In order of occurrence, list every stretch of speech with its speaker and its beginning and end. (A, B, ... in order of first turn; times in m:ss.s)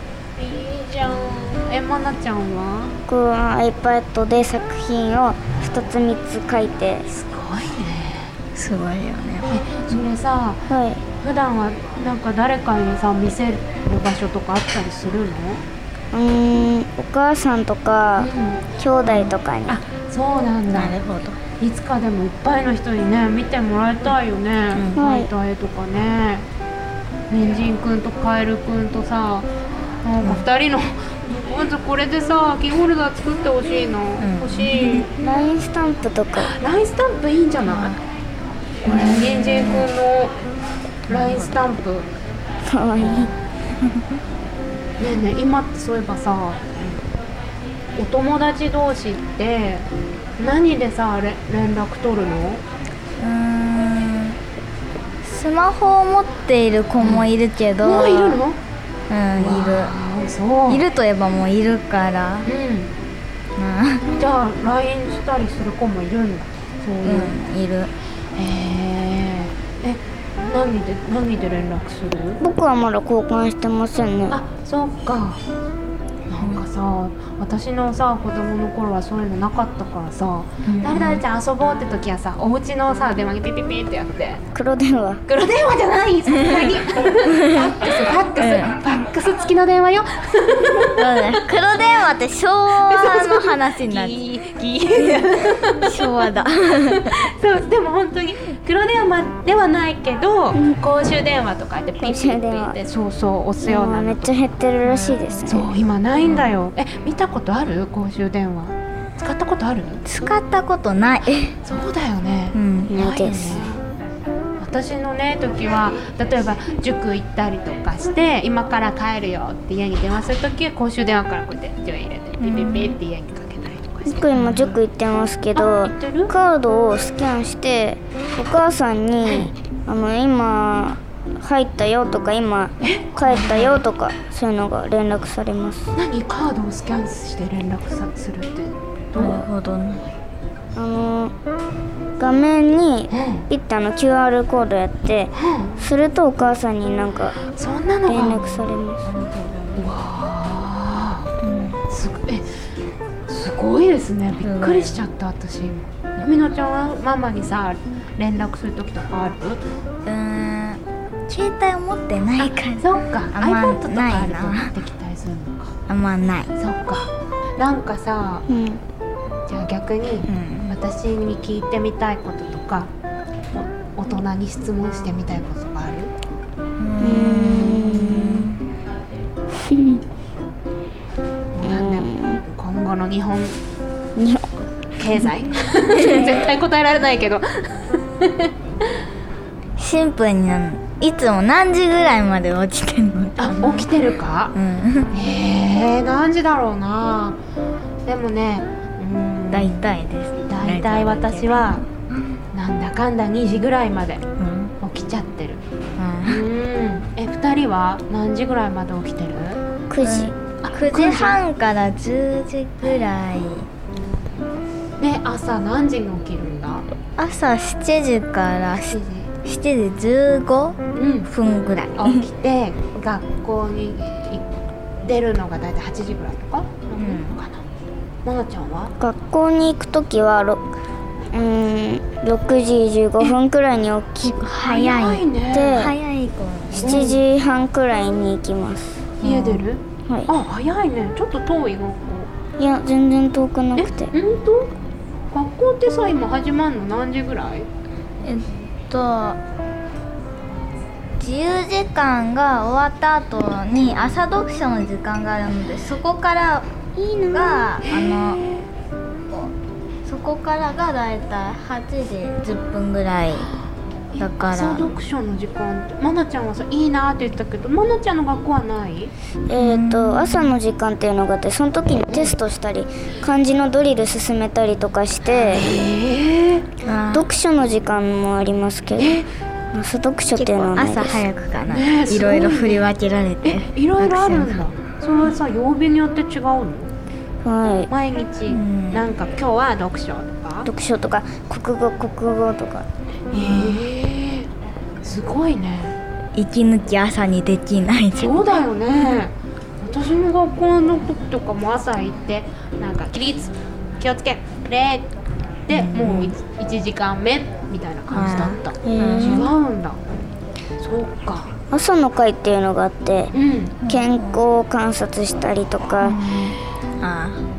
0:00.4-0:03.0 A
0:03.1-0:07.1 B
0:07.1-0:08.3 A
0:08.6-0:09.6 C
0:09.5-0:15.6 A
0:10.7-0:11.0 B
0:16.1-0:19.8 B
0:18.2-0:21.0 A
0:20.7-0:21.4 C
0:21.6-0:26.5 A
0:25.0-0:25.3 B
0:27.3-0:29.5 A
0:30.0-0:35.1 A
0:34.2-0:35.1 C
0:35.2-0:36.5 B
0:36.4-0:38.0 A
0:37.7-0:38.0 C
0:38.8-0:40.4 A
0:38.8-0:39.9 C
0:41.1-0:42.1 A
0:41.1-0:41.6 C
0:42.6-0:43.3 B
0:43.0-0:43.3 A
0:45.0-0:47.0 A
0:48.0-0:49.9 A
0:50.4-0:52.6 A
0:53.2-0:54.4 C
0:55.2-0:58.4 C
0:57.0-0:57.3 A
0:57.8-0:58.6 A
0:59.1-0:59.9 C
0:59.4-1:00.8 A
1:00.7-1:02.5 C
1:02.5-1:02.9 A
1:03.6-1:04.2 C
1:04.2-1:07.4 A
1:07.0-1:07.9 C
1:08.4-1:12.4 A
1:12.4-1:14.4 B
1:14.3-1:15.4 A
1:16.3-1:24.4 A
1:20.7-1:21.2 C
1:24.6-1:25.2 B
1:25.3-1:31.3 A
1:26.3-1:26.7 C
1:27.3-1:27.8 C
1:28.4-1:28.8 C
1:31.0-1:34.2 C
1:32.7-1:36.1 A
1:35.0-1:35.2 C
1:35.8-1:37.1 C
1:36.9-1:44.4 A
1:42.0-1:42.8 B
1:43.6-1:45.8 B
1:44.8-1:45.4 C
1:45.5-1:50.0 A
1:50.0-1:51.6 C
1:51.6-1:53.8 A
1:52.5-1:52.9 C
1:52.9-1:53.7 B
1:54.6-2:04.7 A
2:02.4-2:03.0 C
2:04.0-2:15.9 B
2:05.6-2:06.3 A
2:09.2-2:09.5 A
2:12.8-2:13.8 A
2:16.0-2:19.5 A
2:19.2-2:20.0 C
2:20.8-2:21.3 B
2:22.2-2:27.4 B
2:23.1-2:23.5 A
2:25.4-2:25.8 A
2:27.5-2:28.4 A
2:28.1-2:29.0 B
2:29.0-2:29.9 C
2:29.8-2:31.3 A
2:31.4-2:31.8 C
2:31.9-2:32.5 A
2:33.3-2:39.6 A
2:34.4-2:35.0 C
2:40.1-2:44.7 C
2:42.4-2:45.8 A
2:45.9-2:46.5 C
2:46.6-2:48.5 A
2:48.5-2:48.8 B
2:49.5-2:52.9 A
2:50.3-2:50.7 C
2:53.5-2:56.1 A
2:56.8-2:58.6 C
2:57.0-2:58.5 B
2:59.6-3:00.0 B
3:01.6-3:03.6 A
3:01.6-3:02.4 B
3:04.2-3:04.6 B
3:05.0-3:08.5 A
3:05.9-3:06.2 C
3:09.8-3:13.9 C
3:13.4-3:14.6 A
3:14.5-3:15.1 C
3:15.1-3:17.4 A
3:18.1-3:19.8 A
3:19.5-3:21.8 C
3:20.5-3:21.8 A
3:22.5-3:24.3 A
3:24.4-3:24.7 C
3:24.8-3:25.6 A
3:26.0-3:26.4 C
3:26.2-3:29.6 A
3:29.9-3:30.4 B
3:30.0-3:33.7 C
3:30.6-3:31.4 A
3:35.0-3:36.9 A
3:37.2-3:42.2 C
3:38.9-3:39.3 A
3:41.0-3:41.3 A
3:42.0-3:44.5 A
3:45.0-3:47.6 A
3:47.0-3:47.4 C
3:48.2-3:48.9 A
3:49.0-3:50.6 B
3:51.3-3:54.4 B
3:54.2-3:57.2 C
3:54.5-3:55.9 A
3:55.5-3:55.9 B
3:56.8-3:57.2 A
3:56.8-3:59.0 B
3:59.2-4:02.3 A
3:59.2-3:59.6 C
4:02.6-4:04.1 B
4:03.8-4:04.7 A
4:05.3-4:07.7 A
4:08.2-4:09.4 C
4:11.2-4:16.7 C
4:17.0-4:17.6 B
4:17.3-4:18.4 C
4:17.8-4:18.6 A
4:20.0-4:23.5 C
4:24.1-4:29.1 A
4:24.2-4:24.9 C
4:29.5-4:35.7 B
4:29.6-4:30.5 C
4:35.3-4:36.7 A
4:36.8-4:37.3 C
4:37.1-4:41.3 B
4:39.0-4:39.3 A
4:40.4-4:44.6 C
4:41.7-4:42.8 A
4:43.4-4:46.9 A
4:47.4-4:47.9 B
4:47.9-4:50.7 A
4:48.5-4:49.1 C
4:50.7-4:52.9 B
4:53.3-4:54.5 A
4:53.3-4:53.9 C
4:55.0-4:56.0 A
4:56.4-4:58.4 C
4:58.2-5:05.1 A
5:05.7-5:10.0 A
5:05.7-5:06.4 C
5:08.1-5:09.5 C
5:08.8-5:09.5 B
5:10.8-5:11.5 A
5:11.7-5:13.4 B
5:13.3-5:13.8 A
5:13.8-5:14.4 C
5:13.9-5:16.3 B
5:16.0-5:17.4 C